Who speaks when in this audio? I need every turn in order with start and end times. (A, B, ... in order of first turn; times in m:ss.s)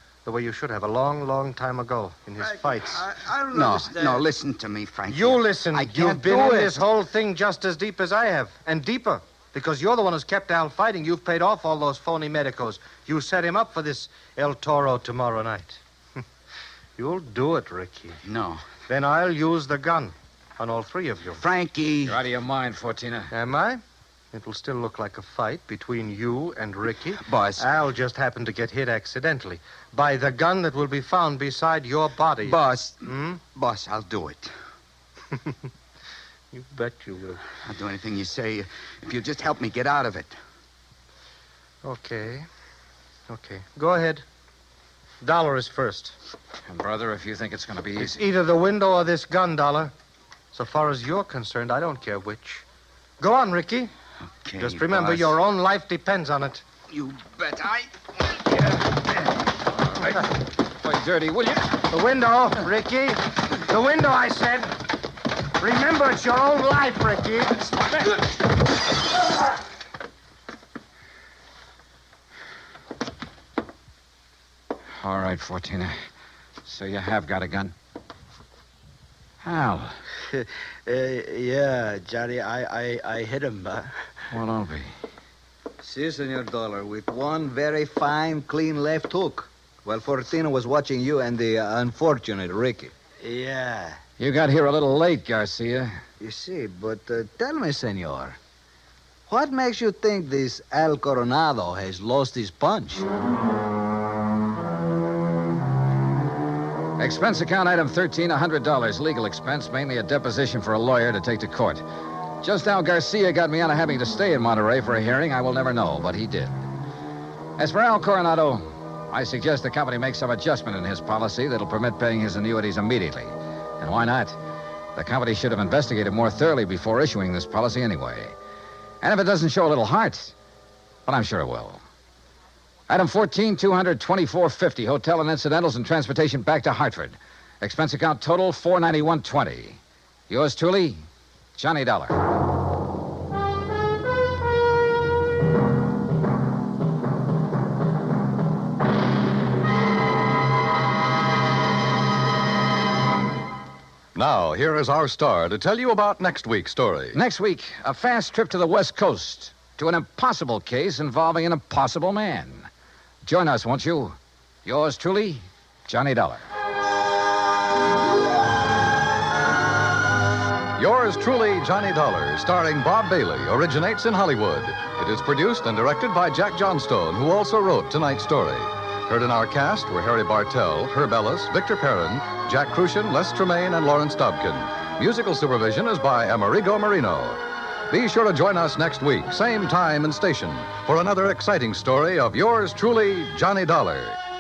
0:00.2-0:03.1 A
0:02.4-0:04.3 B
0:03.5-0:06.8 C
0:05.1-0:16.2 A
0:17.0-0:18.2 A
0:18.2-0:18.6 C
0:18.9-0:21.5 A
0:21.4-0:22.2 C
0:22.0-0:23.3 D
0:23.3-0:23.8 A
0:24.3-0:33.4 A
0:27.2-0:27.7 C
0:32.4-0:34.5 C
0:36.5-0:37.4 A
0:37.6-0:40.4 C
0:41.8-0:42.5 A
0:43.3-0:44.2 A
0:45.2-0:46.2 A
0:46.7-0:48.3 D
0:48.0-0:49.9 A
0:50.5-0:52.6 A
0:53.2-0:53.9 A
0:54.4-0:55.4 C
0:54.6-0:56.6 A
0:56.9-0:57.9 C
1:00.8-1:01.7 D
1:01.9-1:04.8 A
1:05.6-1:08.3 A
1:15.0-1:15.9 D
1:16.6-1:17.8 D
1:19.4-1:20.0 D
1:20.3-1:23.9 B
1:24.3-1:24.9 D
1:25.8-1:32.9 E
1:33.2-1:34.0 B
1:34.2-1:36.0 D
1:36.2-1:38.4 E
1:39.3-1:43.1 E
1:47.0-1:51.8 D
1:52.4-1:56.6 D
1:57.6-2:04.4 D
2:05.0-2:08.3 D
2:09.0-2:10.3 D
2:11.1-2:11.8 D
2:12.9-2:21.0 D
2:21.6-2:22.2 D
2:34.2-2:37.2 F
2:37.1-2:42.7 D
2:43.2-2:46.5 D
2:50.8-3:14.2 F